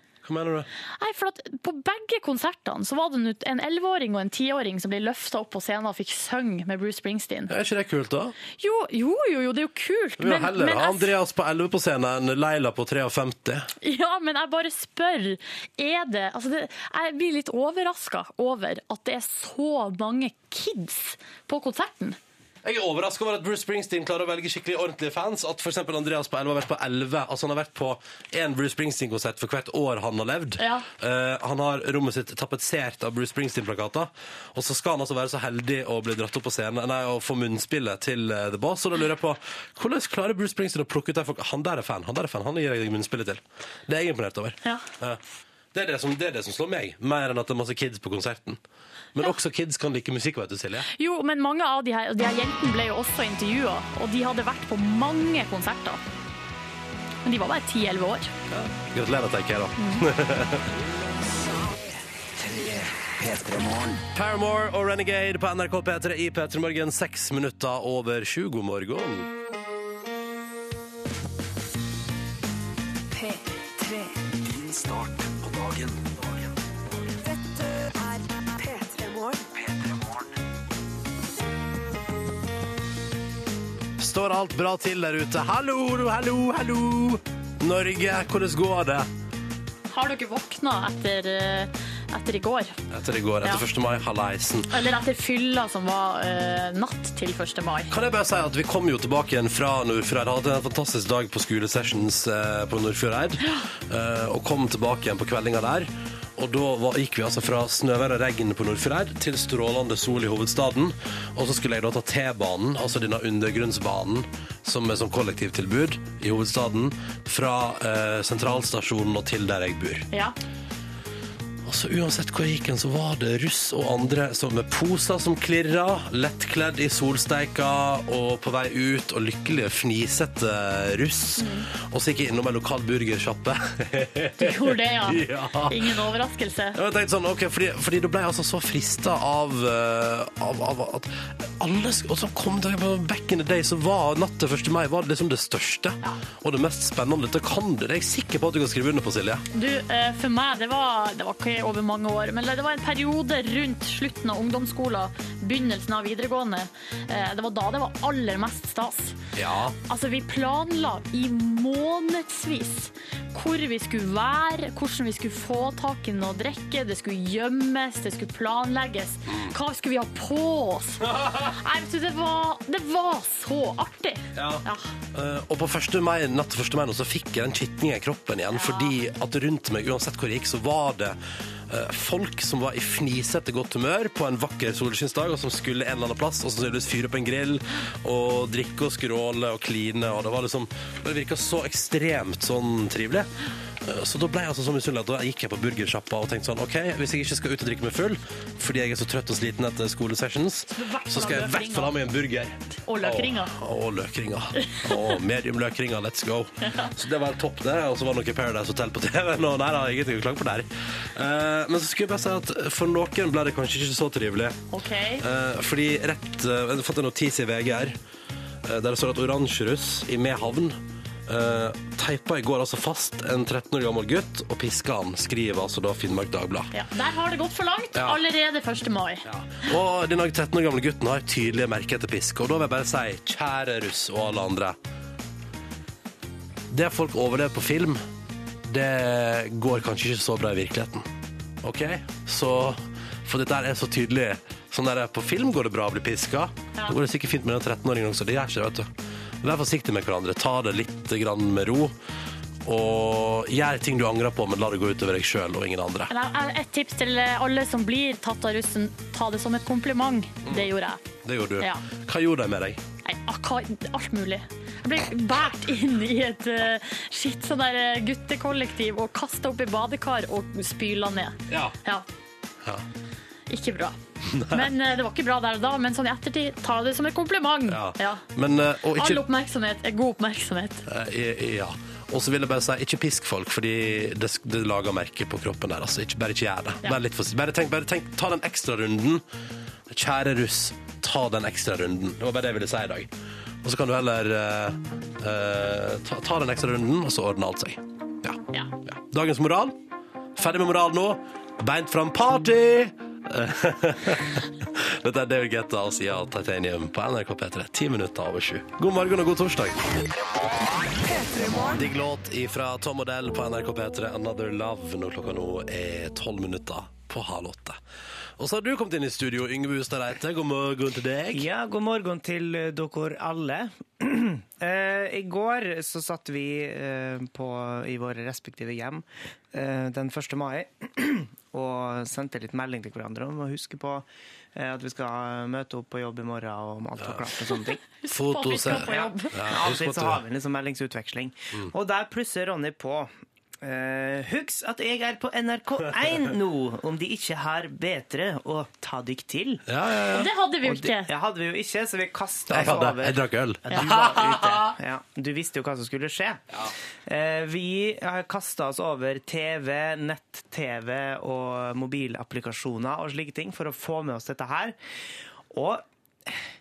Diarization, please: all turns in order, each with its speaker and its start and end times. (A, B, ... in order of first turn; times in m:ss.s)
0:00.2-0:00.7 A
0:01.0-0:07.5 B
0:07.5-0:08.3 A
0:08.6-0:11.1 B
0:10.2-0:13.7 A
0:13.8-0:22.2 B
0:22.6-0:45.2 A
0:30.6-0:30.8 B
0:45.7-0:48.6 A
0:49.1-0:50.9 A
0:51.0-0:56.0 B
0:57.2-0:58.3 B
0:58.5-1:00.7 A
0:59.8-1:00.0 B
1:02.4-1:04.0 C
1:04.1-1:09.3 A
1:13.1-1:16.1 C
1:17.2-1:20.1 C
1:24.0-1:29.1 A
1:29.9-1:32.8 B
1:32.9-1:34.7 A
1:34.7-1:37.9 B
1:37.9-2:00.1 A
2:01.6-2:15.9 A
2:11.4-2:11.7 B
2:14.4-2:16.8 B
2:16.7-2:29.4 A
2:29.5-2:39.2 B
2:39.3-2:39.8 A
2:39.9-2:54.9 B
2:49.3-2:49.5 A
2:51.0-2:51.5 A
2:54.3-3:13.3 A
2:58.5-2:58.9 B
3:13.8-3:34.6 A
3:20.7-3:22.0 B
3:22.8-3:23.5 B
3:24.6-3:24.9 B
3:26.6-3:26.9 B
3:34.7-3:35.2 B
3:35.2-3:38.0 A
3:38.6-3:46.7 A
3:46.7-3:49.2 B
3:47.9-3:48.2 A
3:49.2-3:54.8 A
3:56.7-3:58.0 A
3:58.6-4:01.1 A
4:01.6-4:08.9 A
4:09.4-4:11.9 A
4:12.6-4:16.1 A
4:16.1-4:21.0 B
4:21.2-4:22.8 A
4:23.0-4:32.0 B
4:31.5-4:31.7 A
4:33.5-4:34.0 B
4:34.3-4:34.7 A
4:34.5-4:38.2 B
4:37.7-4:39.2 A
4:38.9-4:40.8 B
4:40.8-4:49.2 A
4:49.9-4:53.1 A
4:53.6-4:59.8 A
5:00.4-5:09.8 A
5:11.0-5:11.8 C
5:11.7-5:17.8 A
5:18.4-5:21.5 A
5:21.3-5:37.8 D
5:37.0-5:37.2 A
5:38.0-5:39.4 B
5:38.1-5:40.2 A
5:38.6-5:43.1 D
5:43.6-5:49.6 D
5:49.7-5:50.3 A
5:50.1-5:51.1 B
5:50.6-5:56.4 D
5:52.5-5:54.7 A
5:57.1-6:04.8 D
6:05.5-6:06.4 D